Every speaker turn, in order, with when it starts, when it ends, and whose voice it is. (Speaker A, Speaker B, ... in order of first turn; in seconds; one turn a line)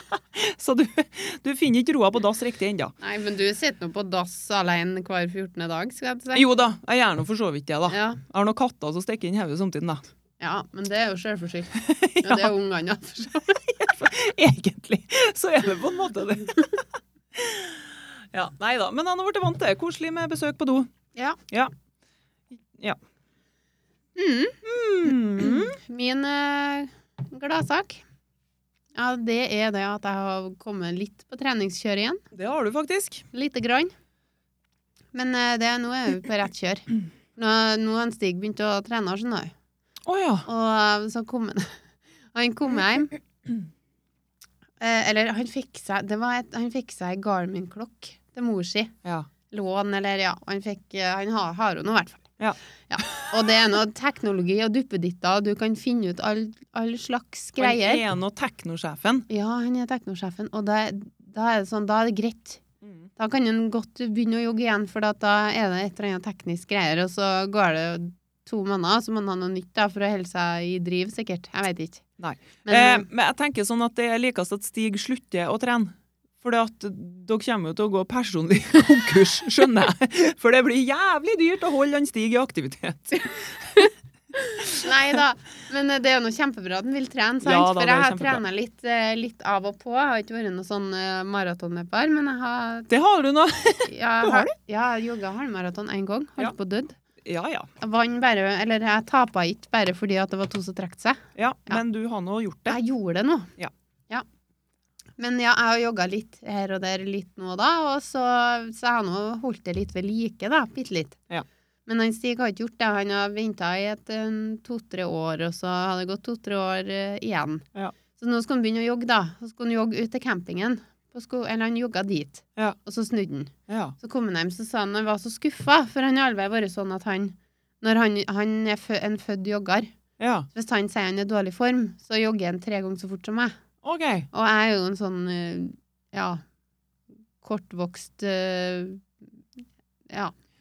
Speaker A: 0.2-2.9
Speaker B: 3.0-6.4
Speaker A: 6.3-10.0
Speaker B: 7.9-8.2
Speaker B: 10.4-13.6
Speaker A: 11.7-12.5
Speaker A: 13.7-16.8
Speaker A: 17.4-20.9
Speaker A: 22.7-23.0
Speaker B: 24.2-24.6
Speaker A: 24.6-25.8
Speaker B: 25.4-28.0
Speaker B: 28.9-32.2
Speaker A: 32.3-33.3
Speaker B: 33.3-33.9
Speaker B: 35.1-39.5
Speaker A: 40.1-40.5
Speaker B: 40.5-41.8
Speaker B: 42.3-43.1
Speaker B: 44.8-48.9
Speaker B: 49.5-52.3
Speaker A: 52.4-53.1
Speaker B: 52.9-58.0
Speaker A: 57.6-59.3
Speaker B: 59.3-62.6
Speaker A: 62.8-63.1
Speaker B: 63.2-72.0
Speaker A: 72.2-83.9
Speaker B: 72.7-73.1
Speaker B: 84.4-92.9
Speaker A: 87.4-88.4
Speaker A: 92.9-94.5
Speaker B: 93.9-97.0
Speaker A: 97.2-97.7
Speaker B: 97.8-101.8
Speaker A: 101.4-102.8
Speaker B: 102.7-103.5
Speaker B: 105.2-111.2
Speaker B: 111.9-129.9
Speaker A: 123.7-124.0
Speaker A: 130.2-130.5
Speaker B: 130.5-133.6
Speaker A: 133.8-134.3
Speaker B: 134.3-136.4
Speaker B: 137.4-139.1